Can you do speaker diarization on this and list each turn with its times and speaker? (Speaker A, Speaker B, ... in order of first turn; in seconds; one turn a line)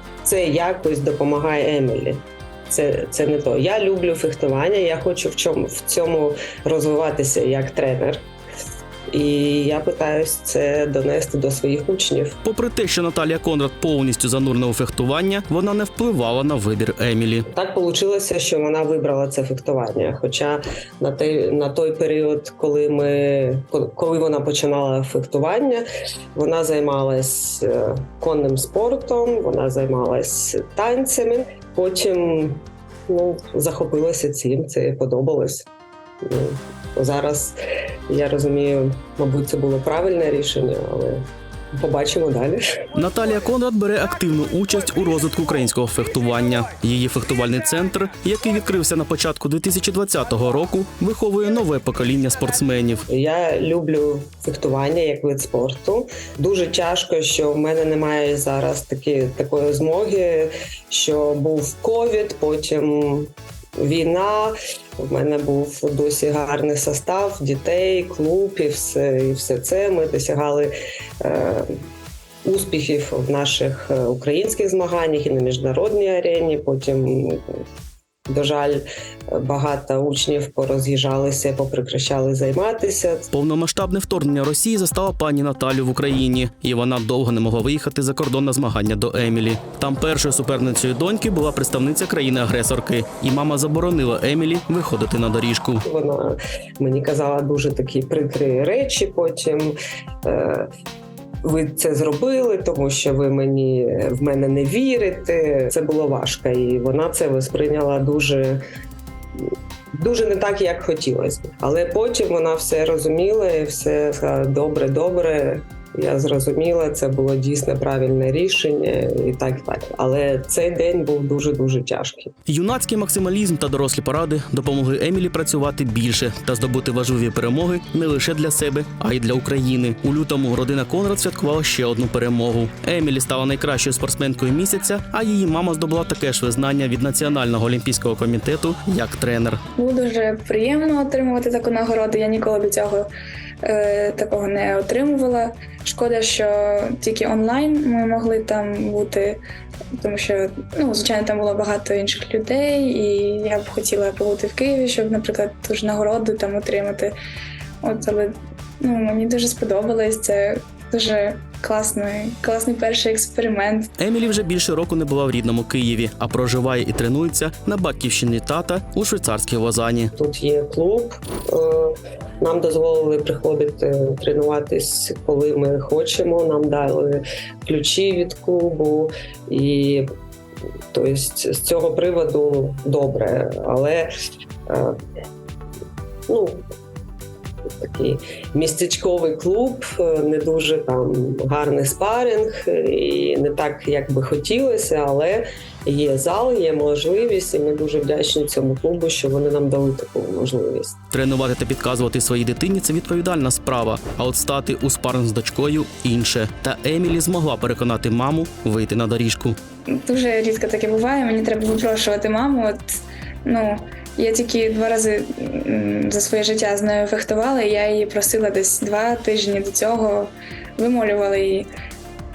Speaker A: 0.2-8.2
Speaker A: 9.1-12.4
Speaker B: 12.4-17.5
Speaker A: 17.5-35.7
Speaker A: 36.2-37.6
Speaker A: 38.1-42.6
Speaker B: 43.0-53.1
Speaker A: 53.1-71.8
Speaker A: 72.5-77.4
Speaker A: 78.3-83.3
Speaker B: 83.3-95.8
Speaker A: 95.8-100.7
Speaker A: 101.4-108.6
Speaker A: 110.0-122.3
Speaker B: 122.5-139.6
Speaker C: 139.8-143.1
Speaker C: 143.6-149.4
Speaker C: 150.0-157.1
Speaker C: 157.8-163.9
Speaker B: 164.0-170.1
Speaker A: 170.2-180.1
Speaker A: 180.9-184.1
Speaker A: 184.7-185.0
Speaker A: 186.3-186.6
Speaker A: 187.8-201.0
Speaker B: 201.1-209.6
Speaker C: 210.0-221.7